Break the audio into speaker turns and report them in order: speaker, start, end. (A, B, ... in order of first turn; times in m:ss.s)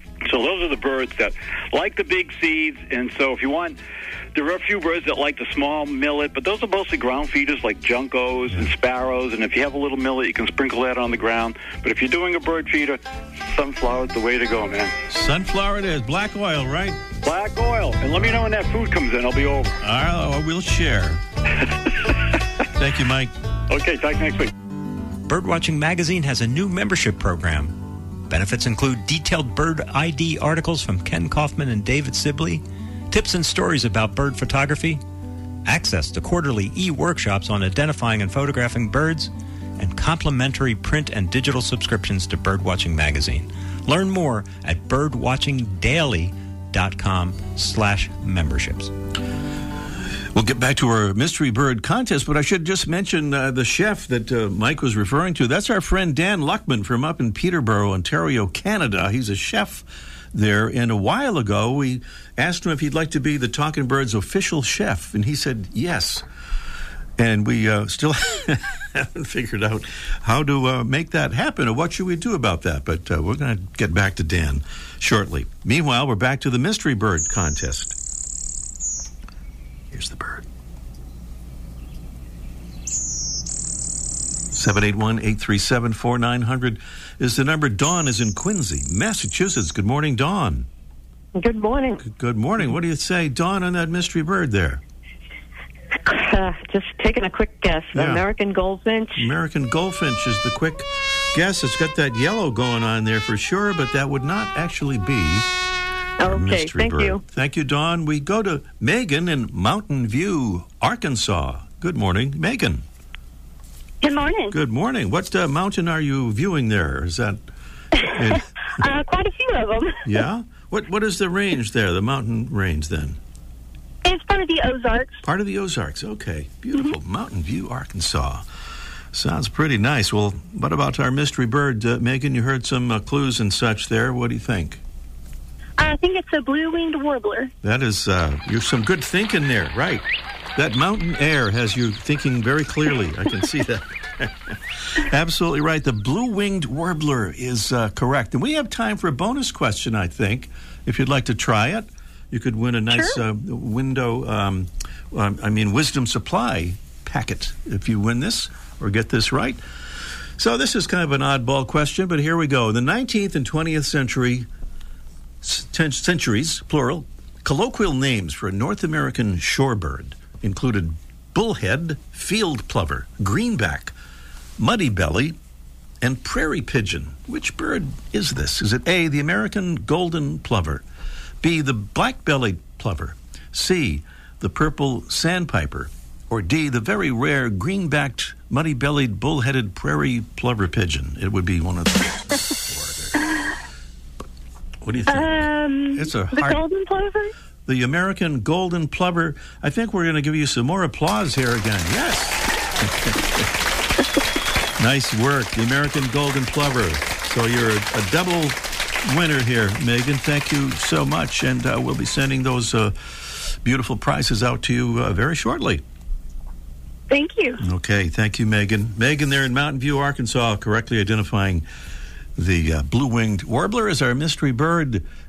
0:00.2-0:03.8 A
0:04.3-0:15.0 A
0:15.1-0:17.0 B
0:17.2-0:19.8 A
0:19.8-0:21.2 B
0:22.7-0:23.3 B
0:23.7-0:24.5 A
0:25.3-0:35.0 C
0:35.6-0:48.9 C
0:50.3-1:06.2 B
1:07.2-1:18.0 B
1:19.9-1:20.5 B
1:24.5-1:30.7 B
1:31.4-1:32.0 D
1:32.0-1:34.8 B
1:36.1-1:39.3 D
1:37.9-1:38.3 B
1:39.2-1:45.5 B
1:46.2-1:47.2 D
1:46.2-1:52.8 B
1:54.0-1:54.6 E
1:54.5-1:57.4 B
1:58.0-1:58.5 B
1:58.0-2:00.2 E
2:00.0-2:03.2 B
2:04.0-2:05.2 E
2:05.2-2:08.5 B
2:09.1-2:14.8 B
2:15.8-2:17.5 E
2:17.6-2:20.0 B
2:20.6-2:39.6 B
2:32.9-2:33.2 E
2:40.4-2:44.5 B
2:45.4-2:53.9 B
2:54.6-2:55.4 B
2:56.0-3:00.8 B
3:01.4-3:13.2 B
3:14.8-3:16.7 B
3:15.1-3:17.3 E
3:17.7-3:23.5 B
3:24.8-3:35.8 B
3:37.1-3:37.6 E
3:37.6-3:41.7 B
3:42.4-3:45.0 B